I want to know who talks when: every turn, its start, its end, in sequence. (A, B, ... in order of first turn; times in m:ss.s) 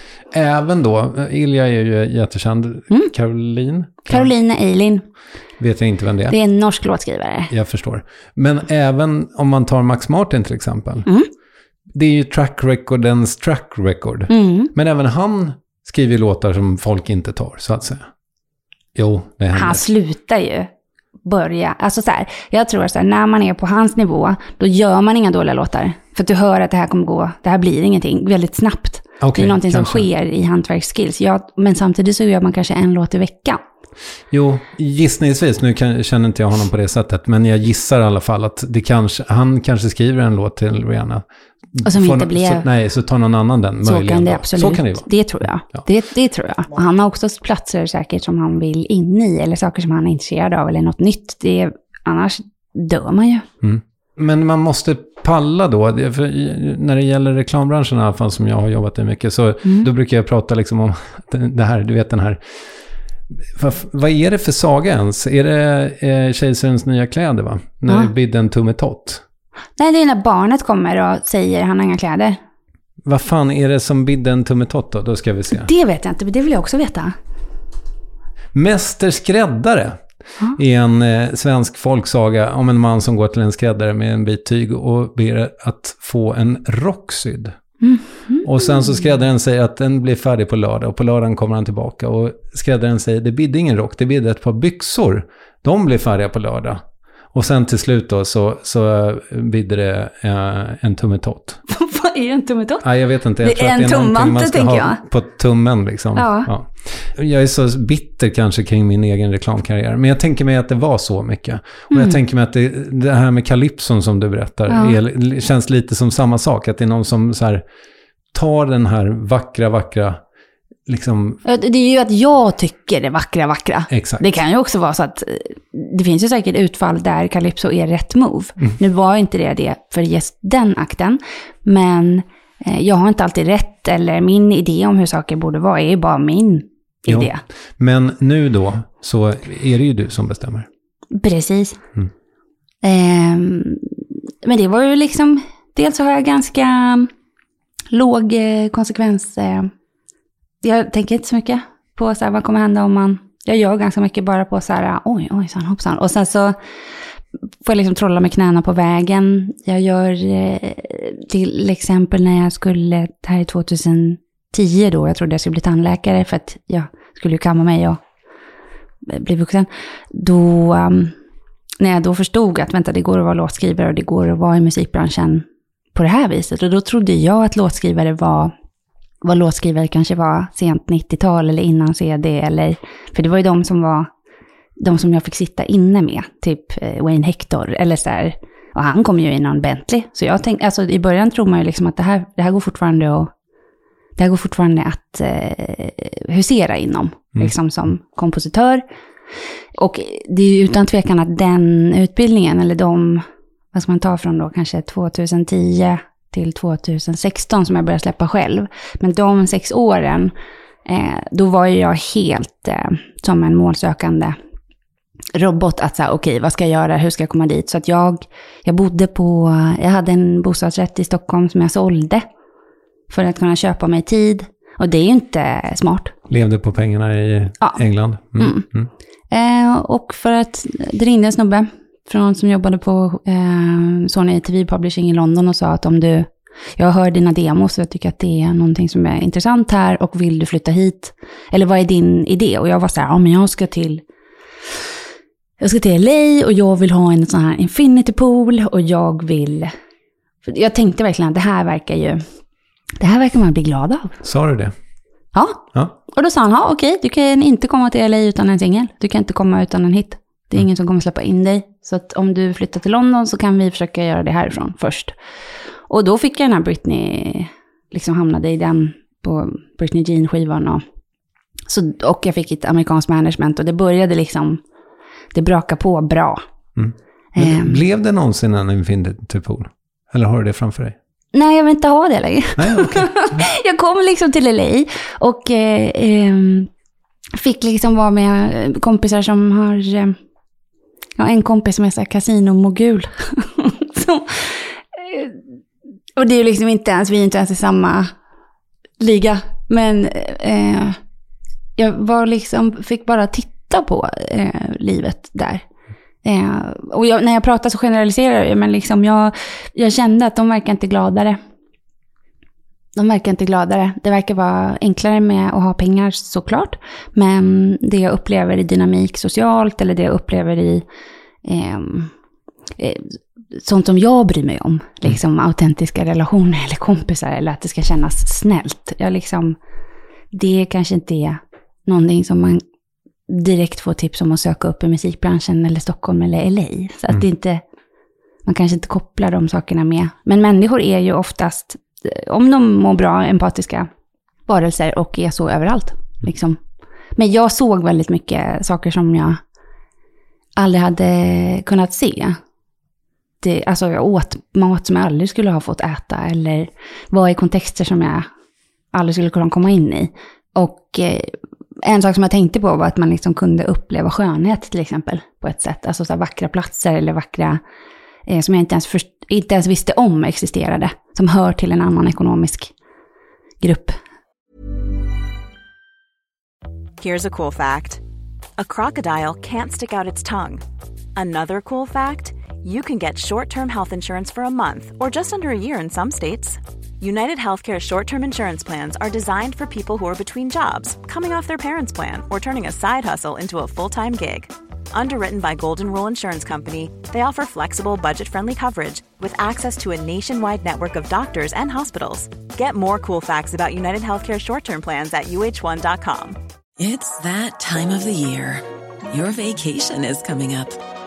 0:00.3-0:04.3 A
0:04.1-0:05.0 B
0:05.6-0:06.4 A
0:06.3-0:07.5 B
0:07.5-0:11.1 A
0:11.9-0:18.1 A
0:14.3-0:14.7 B
0:19.0-0:19.8 A
0:19.5-0:20.7 B
0:21.2-0:33.6 B
0:29.2-0:30.1 A
0:34.3-0:45.1 A
0:41.8-0:42.7 B
0:43.8-0:53.5 B
0:53.6-1:02.4 A
0:59.6-0:59.9 B
1:03.6-1:09.2 A
1:09.8-1:12.4 B
1:13.0-1:15.7 A
1:15.5-1:17.2 B
1:18.5-1:27.6 A
1:27.8-1:29.0 B
1:28.4-1:41.6 A
1:41.7-1:42.9 B
1:42.8-1:57.6 A
1:43.4-1:45.0 B
1:46.2-1:46.5 B
1:51.9-1:52.2 B
1:54.7-1:55.0 B
1:58.3-2:00.2 A
2:00.9-2:01.4 A
2:01.4-2:17.4 B
2:03.9-2:04.2 A
2:17.1-2:20.7 A
2:21.1-2:21.8 B
2:22.8-2:27.1 B
2:27.9-2:29.7 B
2:30.6-2:36.6 B
2:37.6-2:48.0 B
2:49.0-2:51.2 B
2:51.8-2:58.5 B
2:59.2-3:04.1 B
3:04.8-3:13.3 B
3:14.2-3:18.8 B
3:19.8-3:30.3 B
3:30.8-3:34.4 B
3:35.4-3:42.3 B
3:43.1-3:46.2 B
3:46.3-3:48.9 A
3:48.4-3:48.7 B
3:49.3-4:04.0 B
4:05.6-4:09.7 B
4:10.4-4:12.2 B
4:13.0-4:14.2 B
4:14.2-4:14.8 A
4:15.3-4:25.2 B
4:25.9-4:30.8 B
4:31.7-4:34.6 B
4:35.3-4:36.4 B
4:36.8-4:41.0 A
4:37.4-4:37.8 B
4:41.3-4:46.7 B
4:42.6-4:43.5 A
4:47.3-4:50.2 B
4:51.2-4:55.4 B
4:56.2-4:58.1 B
4:59.0-5:01.0 B
5:01.8-5:05.7 B
5:06.2-5:11.4 B
5:13.0-5:20.8 B
5:21.4-5:22.1 B
5:22.8-5:29.6 B
5:30.3-5:32.6 B
5:33.3-5:37.6 B
5:38.4-5:43.9 B
5:44.5-5:46.6 B
5:47.2-5:49.4 B
5:50.6-5:52.4 B
5:53.4-5:58.3 B
5:58.9-6:07.6 B
6:08.3-6:12.7 B
6:13.6-6:14.0 B
6:17.0-6:18.0 C
6:18.6-6:20.6 C
6:21.2-6:46.4 C
6:46.8-6:50.8 D